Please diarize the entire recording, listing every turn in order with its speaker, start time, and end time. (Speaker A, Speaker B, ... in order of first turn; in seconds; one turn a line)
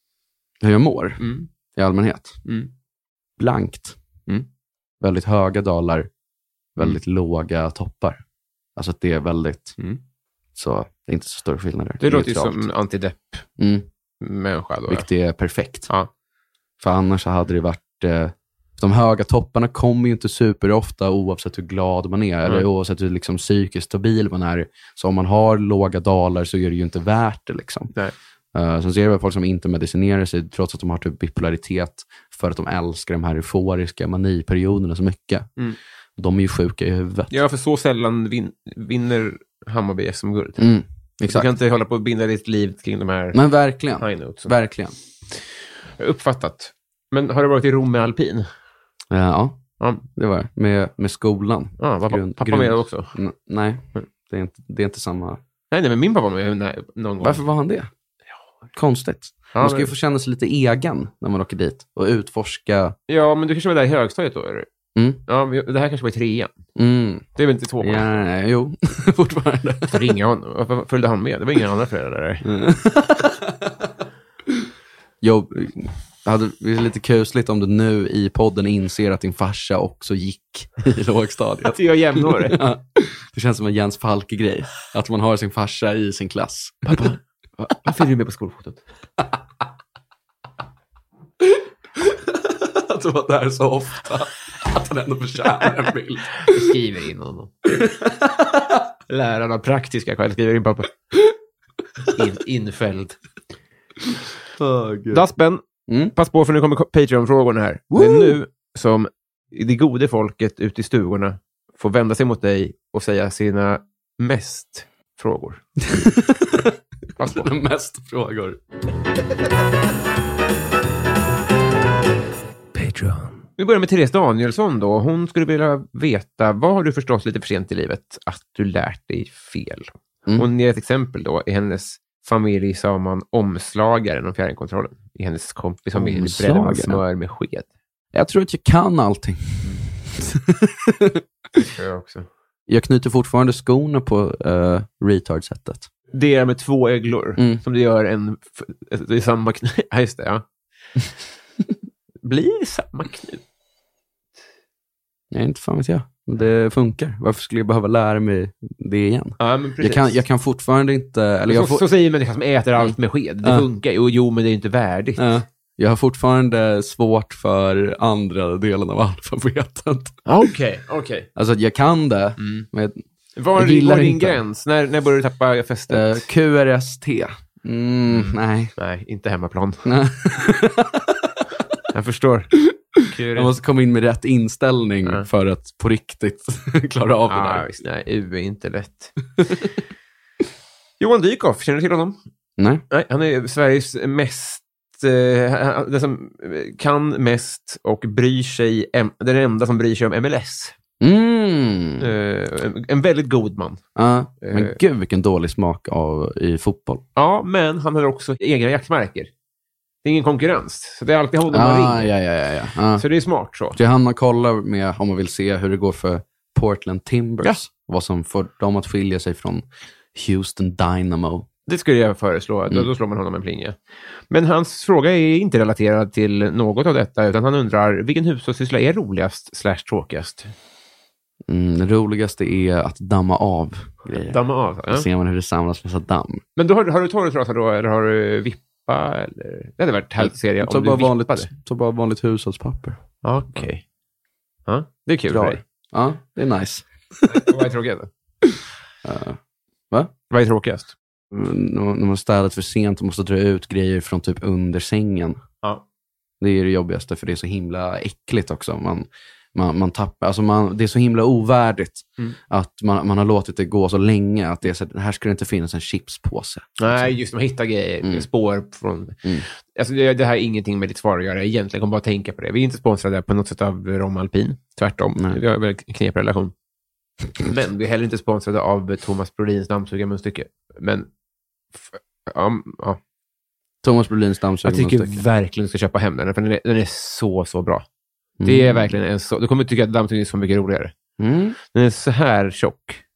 Speaker A: 0.6-2.4
Speaker B: 1.2-1.5
Speaker B: 2.4-2.7
Speaker A: 3.4-4.0
Speaker A: 5.0-6.1
Speaker A: 6.8-8.2
Speaker A: 8.8-9.7
Speaker A: 10.5-12.7
Speaker B: 12.0-13.4
Speaker A: 13.6-13.9
Speaker B: 14.2-15.1
Speaker A: 14.9-15.9
Speaker A: 16.8-27.9
Speaker A: 28.5-35.5
Speaker A: 36.2-37.3
Speaker B: 37.3-40.7
Speaker A: 40.6-41.5
Speaker B: 41.3-43.4
Speaker A: 43.3-44.9
Speaker B: 44.0-44.5
Speaker B: 45.3-48.5
Speaker A: 49.1-55.4
Speaker B: 51.8-53.1
Speaker B: 55.7-57.4
Speaker A: 57.2-57.9
Speaker A: 58.8-63.0
Speaker B: 59.5-59.9
Speaker B: 63.1-64.7
Speaker A: 64.9-65.2
Speaker B: 65.2-66.5
Speaker A: 66.8-67.2
Speaker B: 67.3-68.1
Speaker A: 67.8-70.1
Speaker B: 69.9-72.5
Speaker A: 72.4-73.9
Speaker A: 75.2-87.0
Speaker B: 81.6-82.6
Speaker B: 86.8-88.8
Speaker A: 91.4-96.7
Speaker B: 96.4-97.5
Speaker A: 97.7-98.8
Speaker B: 99.1-100.9
Speaker B: 102.1-103.2
Speaker A: 104.6-105.2
Speaker B: 105.1-105.6
Speaker A: 105.9-106.1
Speaker B: 106.1-115.6
Speaker A: 107.9-108.4
Speaker A: 115.8-118.6
Speaker B: 117.2-117.5
Speaker A: 122.7-123.3
Speaker B: 123.6-137.7
Speaker A: 135.9-137.0
Speaker A: 138.1-141.7
Speaker B: 141.6-142.3
Speaker A: 142.7-145.9
Speaker B: 146.1-150.4
Speaker A: 147.4-147.6
Speaker B: 152.2-153.4
Speaker A: 155.3-161.8
Speaker B: 159.4-160.2
Speaker B: 161.5-165.3
Speaker A: 165.2-170.2
Speaker B: 170.2-171.3
Speaker A: 171.3-173.0
Speaker B: 172.4-172.7
Speaker B: 173.3-176.2
Speaker A: 173.6-174.4
Speaker A: 175.9-178.7
Speaker B: 178.1-179.8
Speaker A: 179.8-181.7
Speaker B: 181.9-183.5
Speaker A: 183.3-187.7
Speaker B: 187.3-189.6
Speaker B: 191.0-192.2
Speaker A: 192.6-192.8
Speaker B: 192.9-200.7
Speaker A: 201.0-202.1
Speaker B: 202.0-203.8
Speaker A: 203.9-207.0
Speaker B: 204.4-204.8
Speaker B: 207.2-209.3
Speaker B: 210.0-212.1
Speaker A: 211.5-213.0
Speaker B: 212.9-213.8
Speaker A: 213.7-221.5
Speaker B: 221.7-230.5
Speaker A: 231.5-236.4
Speaker B: 234.1-235.1
Speaker B: 236.6-241.5
Speaker A: 240.2-243.0
Speaker B: 243.2-243.8
Speaker B: 244.7-245.6
Speaker A: 245.3-247.4
Speaker B: 247.3-248.1
Speaker A: 248.5-249.4
Speaker B: 250.3-250.9
Speaker A: 251.3-255.4
Speaker A: 256.4-267.1
Speaker B: 266.8-276.5
Speaker B: 277.4-281.1
Speaker B: 281.8-283.0
Speaker A: 283.8-285.2
Speaker B: 284.6-287.8
Speaker A: 288.4-288.9
Speaker B: 288.4-290.9
Speaker A: 291.2-291.6
Speaker B: 291.7-293.0